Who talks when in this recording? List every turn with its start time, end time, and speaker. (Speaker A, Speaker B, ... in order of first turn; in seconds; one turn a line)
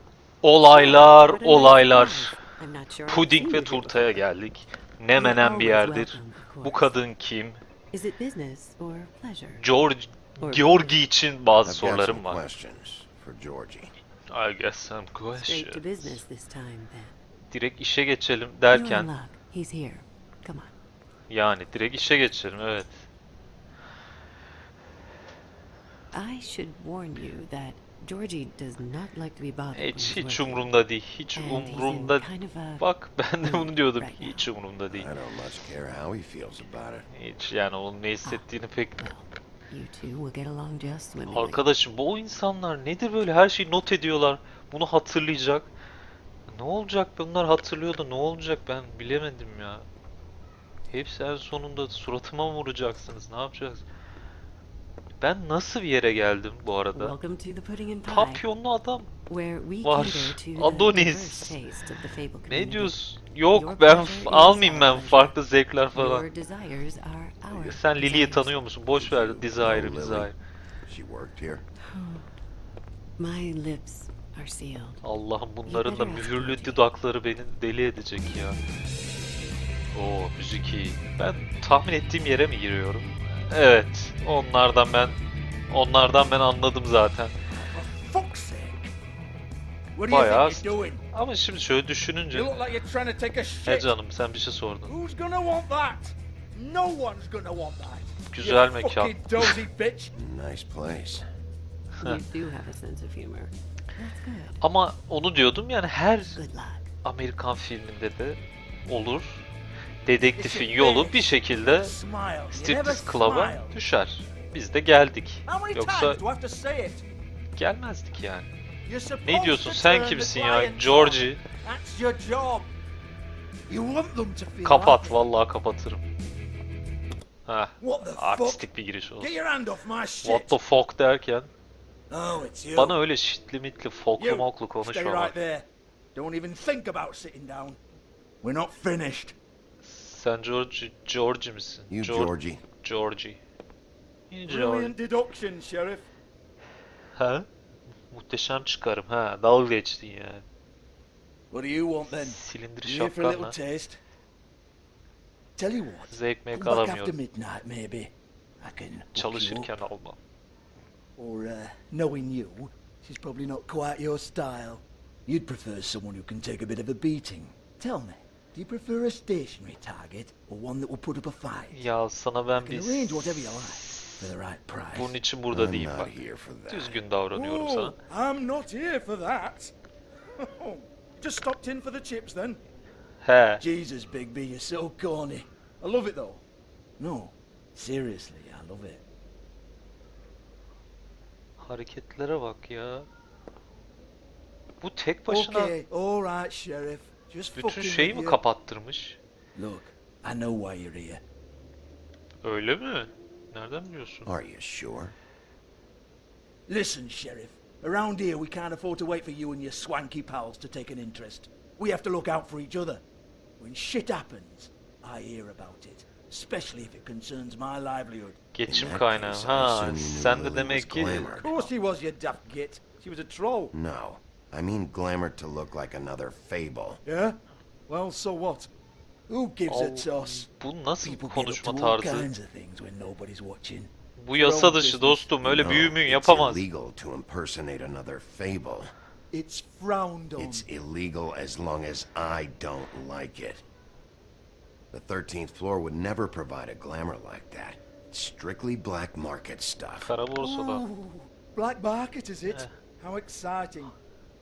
Speaker A: 0.4-2.4
Speaker B: 0.6-4.2
Speaker A: 3.1-7.6
Speaker B: 5.1-7.0
Speaker B: 7.9-9.8
Speaker A: 9.6-12.4
Speaker B: 10.4-10.9
Speaker C: 11.6-13.9
Speaker A: 14.3-16.2
Speaker B: 15.3-17.1
Speaker A: 17.5-19.1
Speaker B: 18.7-20.7
Speaker A: 21.3-23.0
Speaker B: 26.1-30.7
Speaker A: 29.7-32.3
Speaker B: 31.3-32.8
Speaker A: 32.8-35.1
Speaker B: 33.4-34.4
Speaker C: 34.9-37.1
Speaker A: 37.1-39.1
Speaker B: 39.0-41.7
Speaker A: 41.3-45.7
Speaker A: 46.5-49.9
Speaker A: 50.9-53.9
Speaker A: 55.2-57.1
Speaker B: 56.9-58.4
Speaker A: 58.0-59.1
Speaker B: 59.3-62.9
Speaker A: 59.8-61.6
Speaker A: 62.5-66.2
Speaker B: 63.5-65.4
Speaker B: 65.9-68.5
Speaker C: 67.5-67.8
Speaker A: 67.7-70.4
Speaker C: 68.9-70.3
Speaker C: 70.9-71.6
Speaker B: 73.2-75.0
Speaker A: 75.0-78.6
Speaker B: 75.7-76.8
Speaker A: 79.9-85.2
Speaker A: 85.7-87.3
Speaker D: 87.5-88.9
Speaker D: 89.9-91.0
Speaker A: 90.1-92.5
Speaker D: 92.3-93.9
Speaker A: 93.7-94.9
Speaker D: 94.8-100.1
Speaker A: 98.3-99.4
Speaker C: 100.1-101.3
Speaker B: 102.0-104.5
Speaker A: 104.6-106.4
Speaker B: 106.3-106.9
Speaker A: 107.0-109.5
Speaker A: 110.0-111.9
Speaker D: 110.3-113.8
Speaker A: 112.5-116.2
Speaker D: 115.4-117.0
Speaker A: 117.5-118.5
Speaker D: 118.8-122.7
Speaker A: 119.2-121.4
Speaker D: 123.7-125.2
Speaker A: 124.6-126.1
Speaker A: 127.5-129.3
Speaker D: 127.8-128.7
Speaker D: 129.2-130.6
Speaker A: 130.2-131.5
Speaker D: 132.1-133.0
Speaker A: 132.7-135.3
Speaker D: 134.2-137.8
Speaker D: 138.4-139.3
Speaker A: 139.8-143.4
Speaker C: 141.9-142.6
Speaker A: 144.3-144.9
Speaker D: 144.4-146.1
Speaker A: 147.2-147.4
Speaker A: 148.1-150.4
Speaker D: 151.5-154.0
Speaker A: 152.1-153.6
Speaker D: 155.6-159.7
Speaker A: 156.1-157.1
Speaker A: 159.1-160.2
Speaker D: 161.2-171.8
Speaker A: 171.7-174.3
Speaker D: 172.6-175.2
Speaker A: 174.9-178.0
Speaker C: 175.5-177.0
Speaker D: 177.3-179.7
Speaker D: 180.4-182.6
Speaker A: 183.2-183.6
Speaker D: 183.6-186.4
Speaker D: 187.0-189.0
Speaker A: 191.6-193.1
Speaker A: 194.8-195.8
Speaker D: 195.3-198.4
Speaker A: 197.5-199.2
Speaker D: 199.6-201.2
Speaker A: 202.4-204.3
Speaker C: 204.2-205.1
Speaker D: 206.7-213.0
Speaker D: 213.6-218.4
Speaker A: 218.5-221.7
Speaker C: 218.7-221.5
Speaker D: 221.4-223.7
Speaker C: 223.7-227.0
Speaker D: 227.0-228.7
Speaker D: 229.3-230.5
Speaker A: 229.7-232.3
Speaker D: 231.0-235.3
Speaker A: 234.2-236.6
Speaker C: 235.4-238.9
Speaker D: 239.3-240.7
Speaker C: 240.4-243.6
Speaker C: 244.9-250.1
Speaker A: 250.0-250.8
Speaker D: 250.4-253.9
Speaker A: 252.5-252.7